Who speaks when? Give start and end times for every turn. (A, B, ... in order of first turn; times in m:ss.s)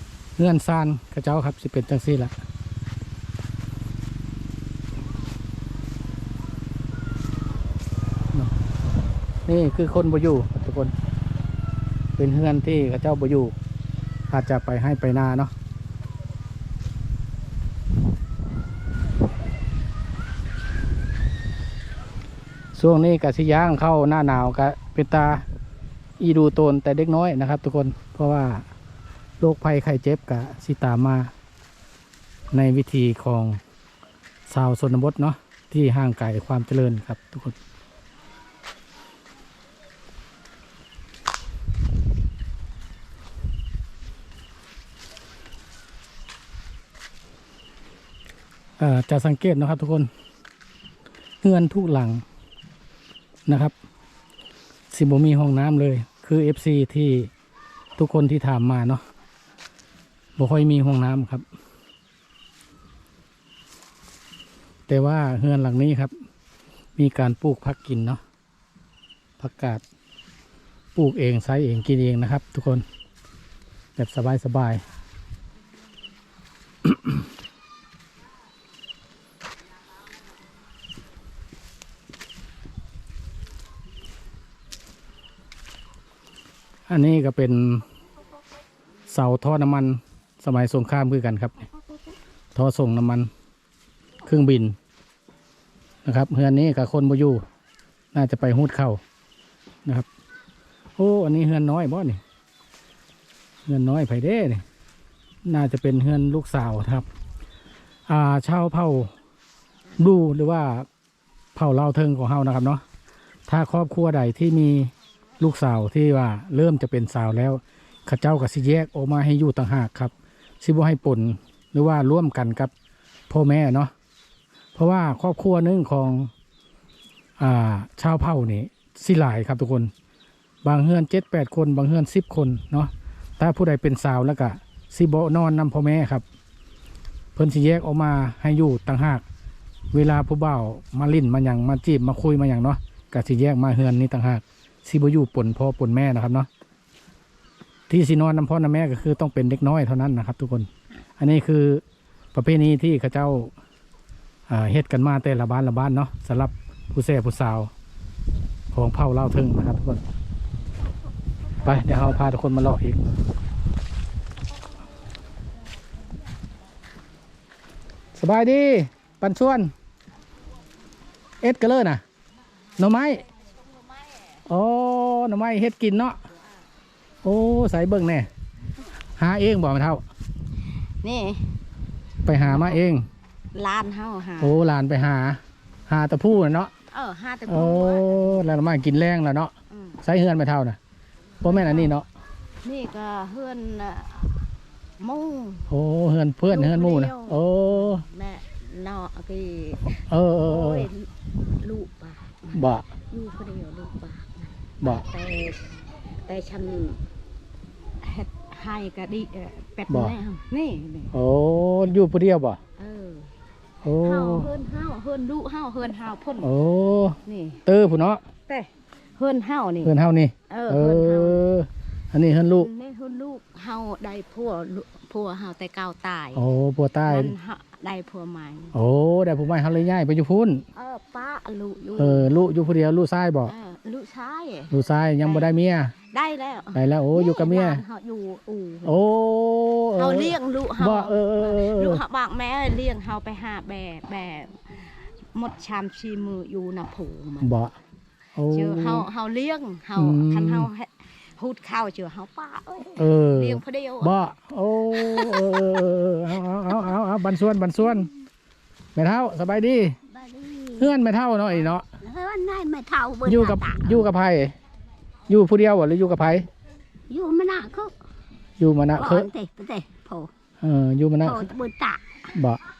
0:00.4-0:02.3 A
0:09.4-0:10.9 A
0:12.2-0:13.5 A
0:14.3-0:15.5 A
0:22.7-0:25.4 A
0:26.2-0:28.6 A
0:29.4-0:31.3 A
0:32.5-0:33.6 A
0:34.5-0:37.6 A
0:48.8-0:50.1 A
0:51.4-0:52.2 A
0:53.4-0:53.7 A
0:54.9-0:57.3 A
0:58.0-0:59.0 A
1:00.4-1:01.4 A
1:04.9-1:06.1 A
1:07.0-1:08.2 A
1:09.4-1:09.8 A
1:10.9-1:12.8 A
1:14.0-1:14.8 A
1:16.8-1:17.2 A
1:26.9-1:27.8 A
1:29.1-1:31.5 A
1:32.5-1:33.3 A
1:34.2-1:34.8 A
1:36.0-1:37.4 A
1:38.1-1:39.0 A
1:41.0-1:42.2 A
1:43.6-1:44.6 A
1:45.4-1:47.1 A
1:48.1-1:49.1 A
1:50.0-1:50.9 A
1:51.5-1:52.8 A
1:53.5-2:02.7 A
2:03.3-2:03.9 A
2:04.7-2:06.3 A
2:07.4-2:09.9 A
2:10.6-2:16.2 A
2:17.4-2:19.2 A
2:19.9-2:26.5 A
2:27.9-2:31.8 A
2:32.3-2:33.5 A
2:34.5-2:37.7 A
2:38.7-2:40.0 A
2:41.6-2:43.0 A
2:48.2-2:49.7 A
2:51.4-2:52.0 A
2:52.8-2:53.2 A
2:54.0-2:54.4 B
2:54.4-2:56.2 A
2:57.2-2:58.3 A
2:59.2-3:00.0 A
3:01.0-3:01.6 B
3:02.2-3:03.1 A
3:02.4-3:02.8 B
3:03.5-3:04.6 B
3:04.4-3:06.7 A
3:06.9-3:08.3 B
3:07.5-3:10.8 A
3:09.7-3:10.0 B
3:11.4-3:12.1 A
3:11.4-3:11.9 B
3:12.6-3:14.5 B
3:15.0-3:15.7 B
3:15.7-3:18.0 A
3:16.5-3:27.0 B
3:20.1-3:20.9 A
3:22.5-3:22.8 A
3:28.0-3:31.1 B
3:29.9-3:30.2 A
3:31.1-3:32.6 A
3:32.8-3:33.3 B
3:33.8-3:34.5 A
3:33.9-3:36.5 B
3:36.4-3:38.2 A
3:37.2-3:37.6 B
3:38.5-3:39.9 B
3:39.8-3:42.7 A
3:40.5-3:41.4 B
3:42.5-3:46.4 B
3:46.3-3:47.3 A
3:47.0-3:48.8 B
3:48.7-3:50.6 A
3:50.7-3:52.3 B
3:52.0-3:53.5 A
3:53.4-3:55.5 B
3:54.7-3:55.9 A
3:56.1-3:59.0 B
3:56.7-3:57.8 A
3:58.8-4:02.0 A
3:59.9-4:07.5 B
4:07.4-4:07.7 A
4:08.3-4:09.1 A
4:08.5-4:14.1 B
4:10.0-4:10.7 A
4:13.0-4:18.1 A
4:15.0-4:15.6 B
4:18.9-4:20.0 A
4:20.0-4:21.0 C
4:20.8-4:21.8 A
4:22.0-4:24.0 C
4:23.2-4:24.5 A
4:25.3-4:26.5 A
4:27.1-4:27.9 C
4:28.6-4:29.3 A
4:29.0-4:30.3 C
4:30.6-4:31.5 A
4:31.2-4:32.0 C
4:32.3-4:32.6 A